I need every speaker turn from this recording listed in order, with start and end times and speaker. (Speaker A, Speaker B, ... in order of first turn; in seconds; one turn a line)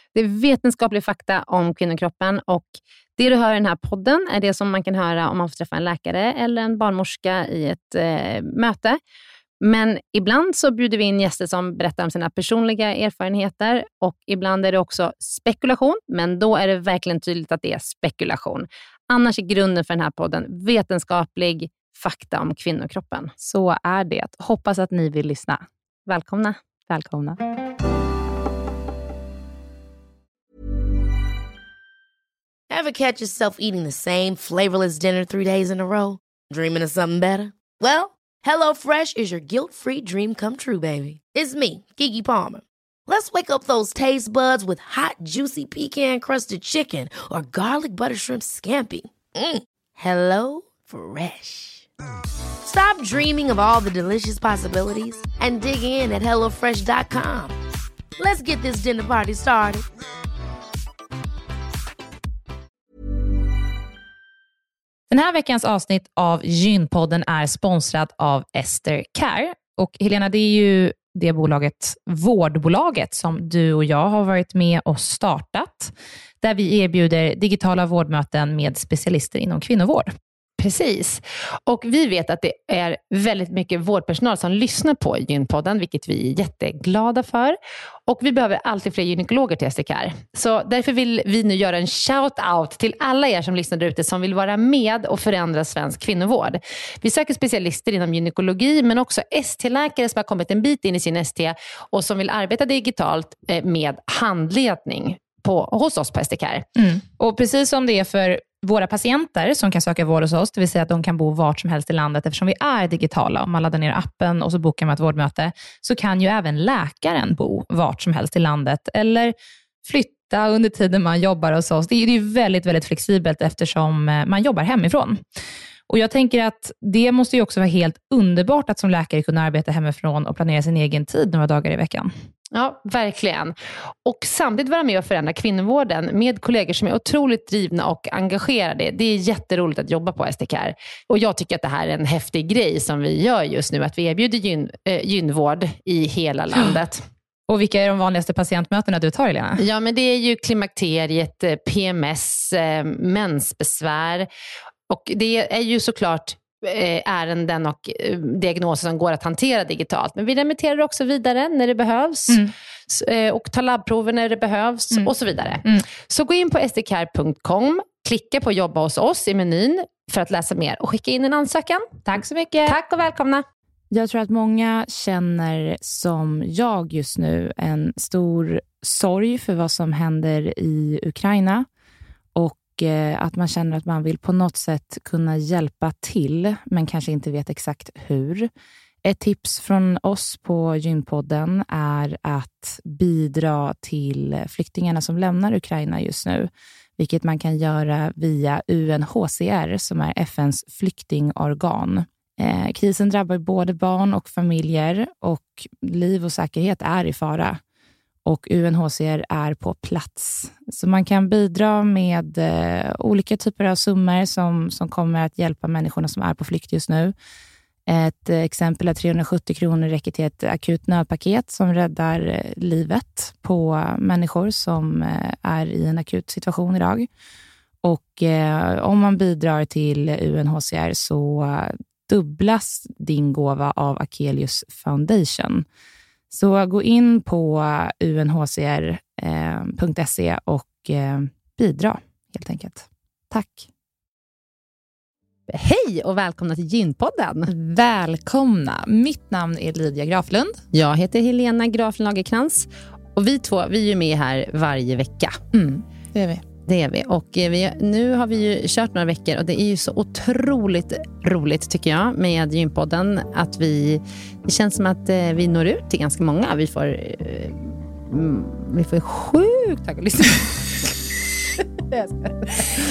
Speaker A: 0.1-9.0
Speaker A: 9.6-23.3
Speaker B: 23.4-25.6
Speaker A: 26.1-27.4
Speaker C: 32.7-51.9
Speaker C: 52.6-57.5
Speaker C: 58.2-59.9
Speaker B: 65.1-80.1
Speaker A: 80.6-106.6
Speaker B: 106.8-119.3
Speaker B: 119.8-125.2
Speaker B: 125.9-132.1
Speaker A: 132.5-147.0
Speaker B: 147.5-149.6
Speaker A: 149.6-154.3
Speaker A: 154.9-172.0
Speaker B: 172.1-172.8
Speaker A: 172.7-173.4
Speaker B: 173.9-181.7
Speaker B: 182.3-188.5
Speaker B: 189.0-207.6
Speaker B: 208.2-217.1
Speaker B: 217.9-227.1
Speaker B: 227.8-235.7
Speaker B: 236.3-243.6
Speaker A: 245.5-247.5
Speaker B: 247.5-250.6
Speaker A: 250.7-255.4
Speaker B: 255.5-256.4
Speaker A: 256.7-270.9
Speaker A: 271.9-272.7